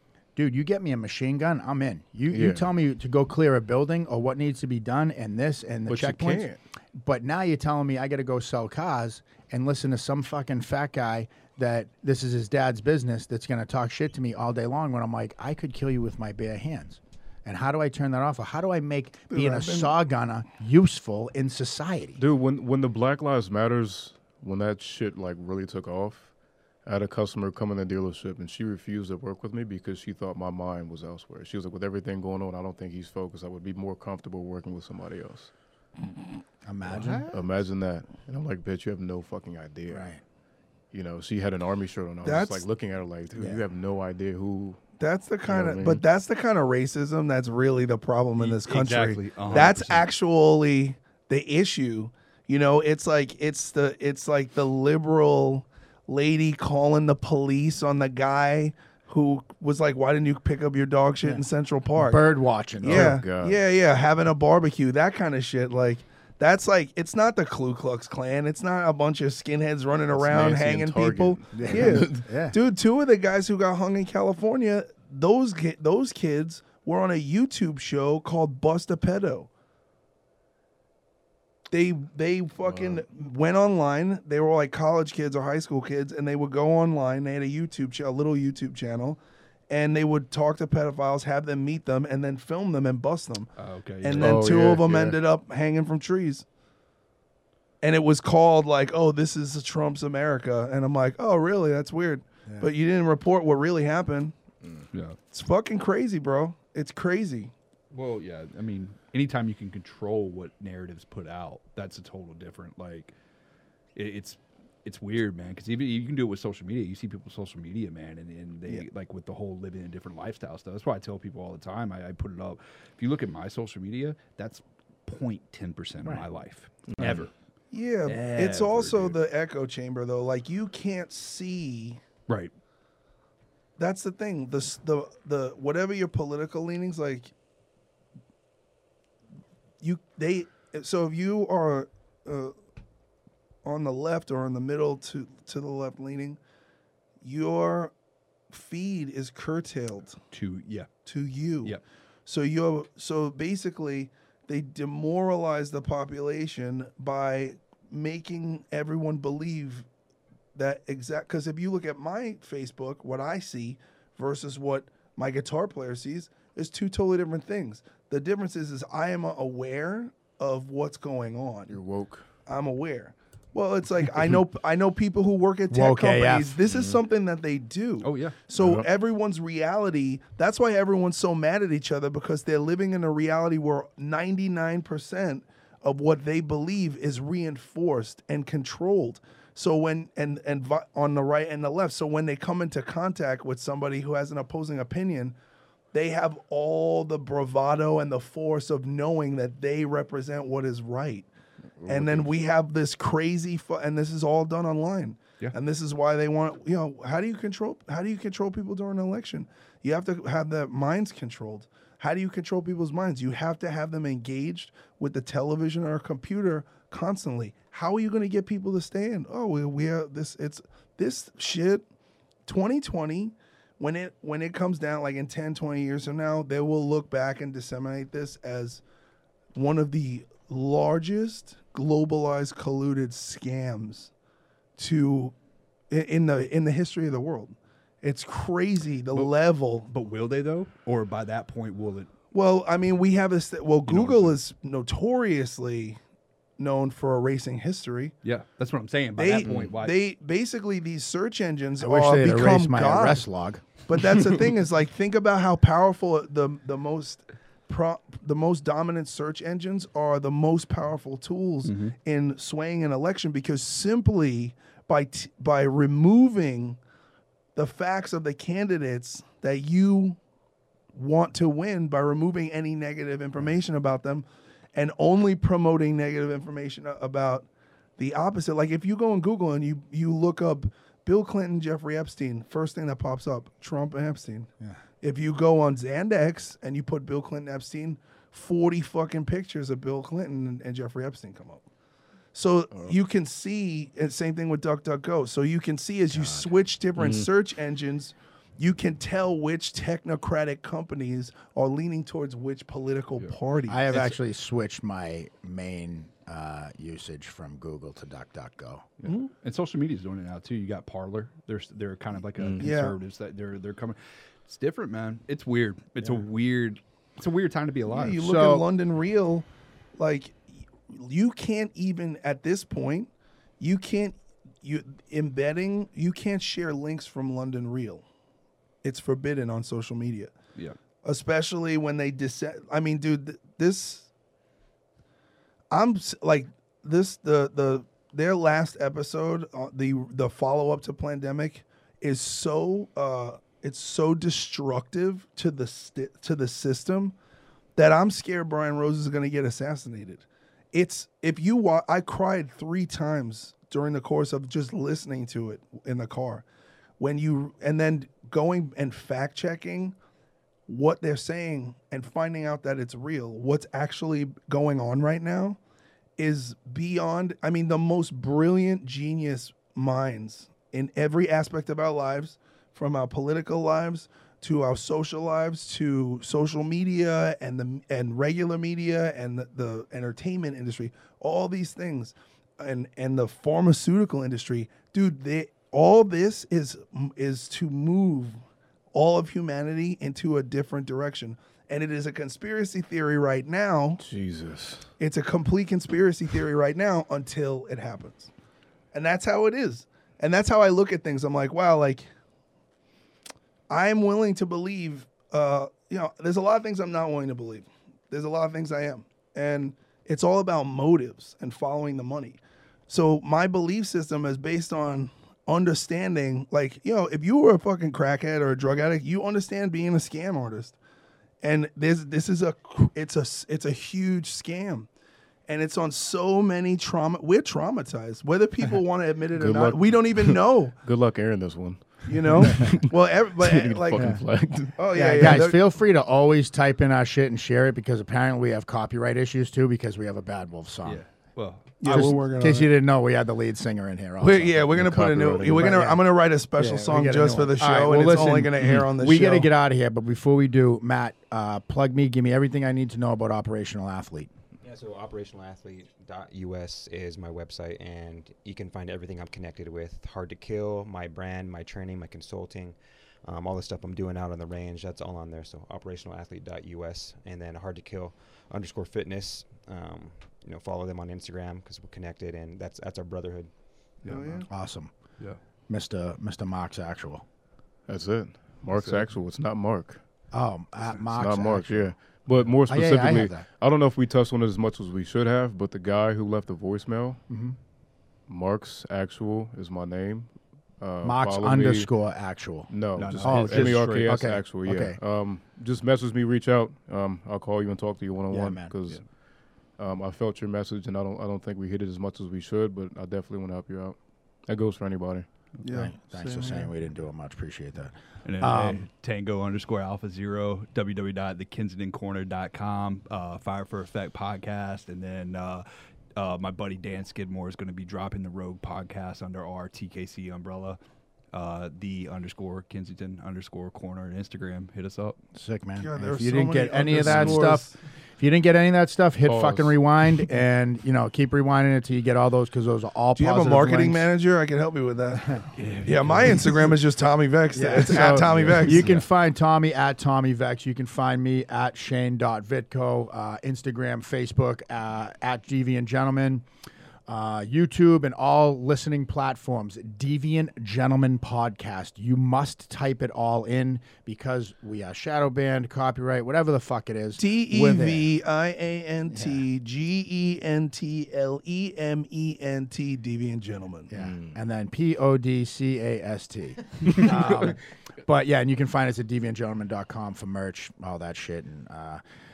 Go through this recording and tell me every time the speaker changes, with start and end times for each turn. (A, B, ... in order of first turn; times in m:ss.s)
0:00.4-0:22.2 A
0:02.3-0:02.6 B
0:05.9-0:06.6 B
0:19.3-0:19.9 C
0:22.2-0:35.5 B
0:36.6-0:37.2 A
0:36.9-0:37.6 D
0:37.1-0:40.3 B
0:39.9-0:40.2 A
0:40.9-0:44.8 B
0:42.2-0:42.6 C
0:43.4-0:43.6 A
0:45.0-1:02.3 C
0:45.4-0:46.0 B
0:48.4-0:50.1 D
1:02.0-1:03.2 A
1:02.8-1:19.5 C
1:02.8-1:03.6 B
1:10.1-1:12.2 B
1:11.5-1:12.6 A
1:21.7-1:36.4 C
1:22.7-1:23.0 B
1:33.6-1:34.5 D
1:34.2-1:35.2 B
1:37.8-1:44.4 C
1:44.6-1:44.9 B
1:44.9-1:45.2 D
1:45.3-1:47.5 C
1:47.9-1:53.1 D
1:54.0-2:07.3 D
2:06.9-2:07.3 B
2:07.7-2:12.0 C
2:08.1-2:09.2 D
2:13.8-2:17.3 C
2:19.8-2:22.5 C
2:23.6-2:26.4 C
2:27.2-2:27.9 C
2:28.5-2:30.2 C
2:30.3-2:31.1 D
2:31.1-2:39.9 C
2:40.6-2:51.8 C
2:51.7-2:52.2 B
2:52.5-3:15.4 C
2:55.7-2:56.6 A
2:56.7-2:57.0 B
2:58.0-2:58.4 D
2:58.6-2:58.9 B
3:15.9-3:21.3 C
3:21.8-3:22.3 B
3:21.8-3:41.9 C
3:42.5-3:48.8 C
3:49.5-3:54.1 C
3:54.8-3:55.4 C
3:55.9-3:59.9 C
3:59.9-4:02.1 D
4:02.3-4:06.0 C
4:03.9-4:04.4 D
4:06.6-4:08.2 C
4:08.2-4:10.0 D
4:09.2-4:13.2 C
4:09.4-4:09.7 B
4:11.8-4:13.8 A
4:13.9-4:26.8 C
4:21.6-4:22.0 D
4:27.6-4:30.2 C
4:30.9-4:37.5 C
4:38.0-4:44.5 C
4:45.0-4:51.6 C
4:52.3-5:04.2 C
4:56.1-4:56.5 A
4:57.0-4:57.3 B
5:03.7-5:08.9 A
5:09.1-5:18.2 D
5:12.4-5:12.7 B
5:12.6-5:13.0 C
5:17.9-5:28.1 C
5:18.2-5:18.6 A
5:28.8-5:30.3 C
5:31.0-5:34.1 C
5:35.7-5:47.2 C
5:47.8-5:56.5 C
5:57.0-6:00.0 C
6:00.7-6:05.6 C
6:06.2-6:28.4 C
6:28.9-6:34.0 C
6:34.0-6:34.9 B
6:35.0-6:38.3 C
6:38.9-6:42.1 C
6:43.7-7:00.8 C
7:01.4-7:04.9 C
7:05.5-7:10.8 C
7:09.4-7:15.4 B
7:12.1-7:15.6 C
7:13.9-7:14.2 A
7:14.9-7:21.0 A
7:20.8-7:21.8 D
7:21.8-7:22.8 C
7:21.8-7:34.3 A
7:24.2-7:29.5 C
7:24.7-7:25.7 B
7:34.6-7:53.5 E
7:54.0-7:54.5 D
7:54.1-7:54.5 C
7:54.5-7:54.9 A
7:55.7-7:57.2 A
7:57.9-8:00.1 B
7:58.8-7:59.1 D
8:00.3-8:03.5 A
8:01.1-8:07.2 B
8:07.3-8:07.6 A
8:08.2-8:11.9 B
8:11.0-8:15.0 A
8:12.7-8:25.6 B
8:13.0-8:14.2 D
8:18.3-8:18.7 A
8:25.6-8:26.7 C
8:25.7-8:28.9 A
8:28.2-8:40.8 D
8:41.3-8:45.2 D
8:45.3-8:54.1 A
8:45.8-8:47.7 C
8:49.2-8:49.8 B
8:53.2-8:58.9 C
8:55.6-8:56.4 D
8:57.5-9:06.5 A
8:58.4-8:59.0 D
9:07.1-9:18.1 A
9:17.2-9:23.9 C
9:19.1-9:19.4 A
9:23.9-9:32.0 A
9:23.9-9:24.4 B